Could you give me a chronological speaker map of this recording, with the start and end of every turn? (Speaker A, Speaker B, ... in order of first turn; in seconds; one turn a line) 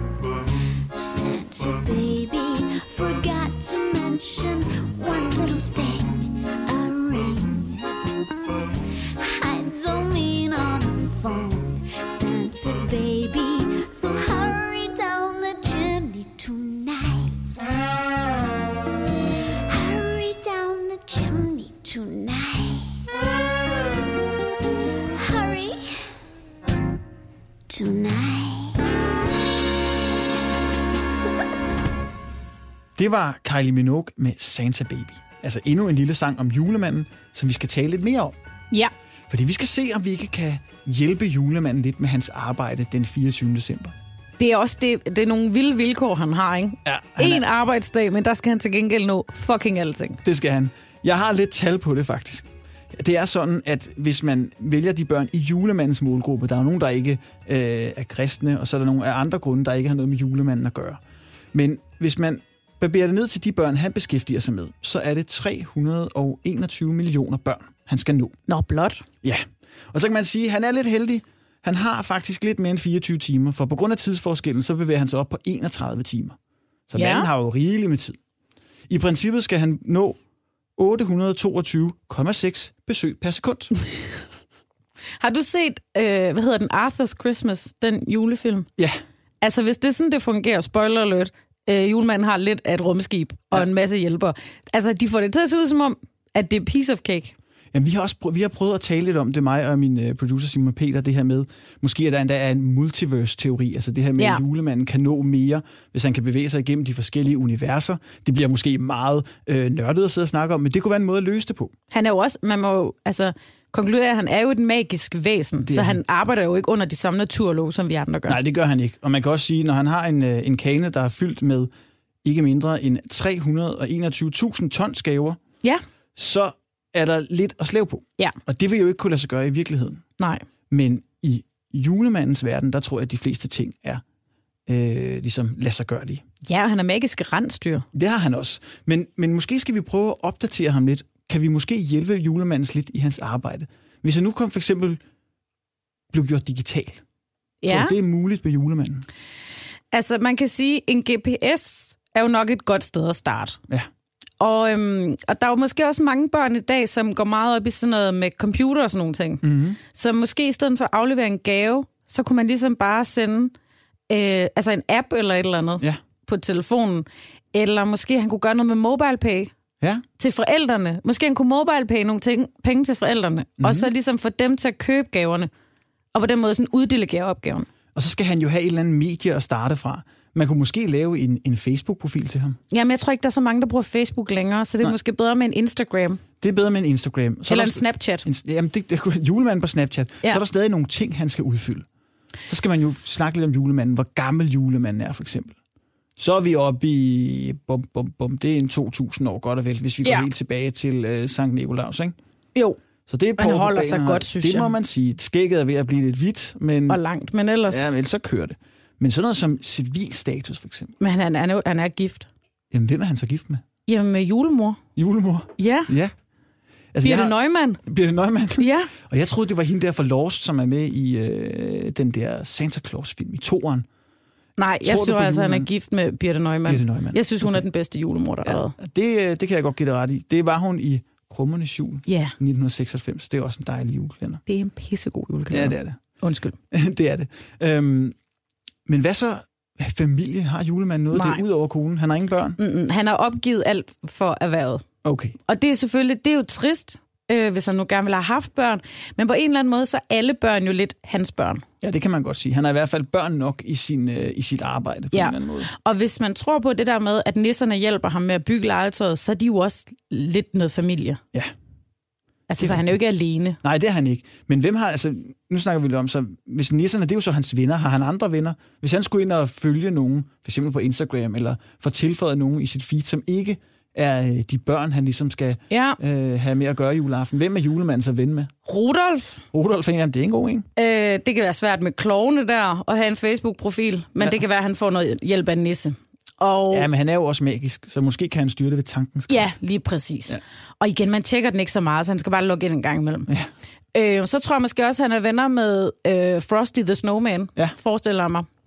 Speaker A: 0.8-8.0
Speaker A: 9.0-17.5
Speaker A: 19.5-23.1
Speaker A: 25.1-26.2
Speaker A: 27.7-28.9
Speaker B: 33.0-38.3
Speaker B: 39.3-43.9
Speaker C: 44.4-50.2
Speaker B: 46.8-47.4
Speaker B: 50.2-61.0
Speaker B: 61.5-68.3
Speaker C: 68.5-69.0
Speaker B: 69.2-76.3
Speaker B: 76.9-78.2
Speaker C: 77.0-77.3
Speaker B: 78.9-80.2
Speaker B: 80.8-83.7
Speaker C: 85.2-88.7
Speaker C: 89.4-97.3
Speaker B: 97.7-111.7
Speaker C: 111.9-118.4
Speaker B: 115.7-116.0
Speaker B: 118.3-121.7
Speaker B: 122.2-125.4
Speaker B: 126.2-130.0
Speaker C: 130.2-130.4
Speaker B: 130.7-134.0
Speaker B: 134.7-136.2
Speaker C: 136.4-137.8
Speaker B: 137.9-145.0
Speaker B: 146.1-147.0
Speaker C: 147.6-147.9
Speaker B: 147.7-149.1
Speaker C: 149.9-153.6
Speaker C: 154.4-163.5
Speaker B: 159.4-159.8
Speaker C: 164.1-169.5
Speaker C: 170.2-175.5
Speaker B: 173.6-173.9
Speaker C: 176.1-177.7
Speaker B: 177.9-182.6
Speaker C: 182.7-186.2
Speaker B: 186.4-191.8
Speaker C: 187.5-188.2
Speaker B: 192.5-195.5
Speaker B: 196.2-202.2
Speaker B: 203.1-207.0
Speaker C: 203.4-204.7
Speaker C: 206.9-207.9
Speaker B: 207.7-210.9
Speaker C: 211.0-212.3
Speaker B: 212.7-213.6
Speaker C: 213.9-214.8
Speaker B: 214.9-216.1
Speaker C: 215.6-215.9
Speaker B: 216.9-223.8
Speaker C: 217.0-217.8
Speaker C: 218.6-218.9
Speaker C: 224.6-228.7
Speaker B: 224.8-225.7
Speaker B: 226.7-227.6
Speaker B: 228.4-234.4
Speaker C: 232.1-232.3
Speaker C: 234.5-236.6
Speaker B: 235.5-236.0
Speaker B: 236.7-238.1
Speaker B: 238.8-242.6
Speaker C: 241.1-241.4
Speaker C: 242.6-244.8
Speaker B: 245.0-245.4
Speaker C: 245.5-251.6
Speaker B: 251.8-255.7
Speaker C: 255.1-261.2
Speaker C: 262.5-263.6
Speaker B: 262.6-262.9
Speaker B: 263.6-278.5
Speaker C: 275.7-276.0
Speaker C: 278.6-279.4
Speaker B: 279.5-280.6
Speaker C: 280.8-286.9
Speaker B: 286.7-289.5
Speaker C: 289.3-293.3
Speaker C: 293.9-298.5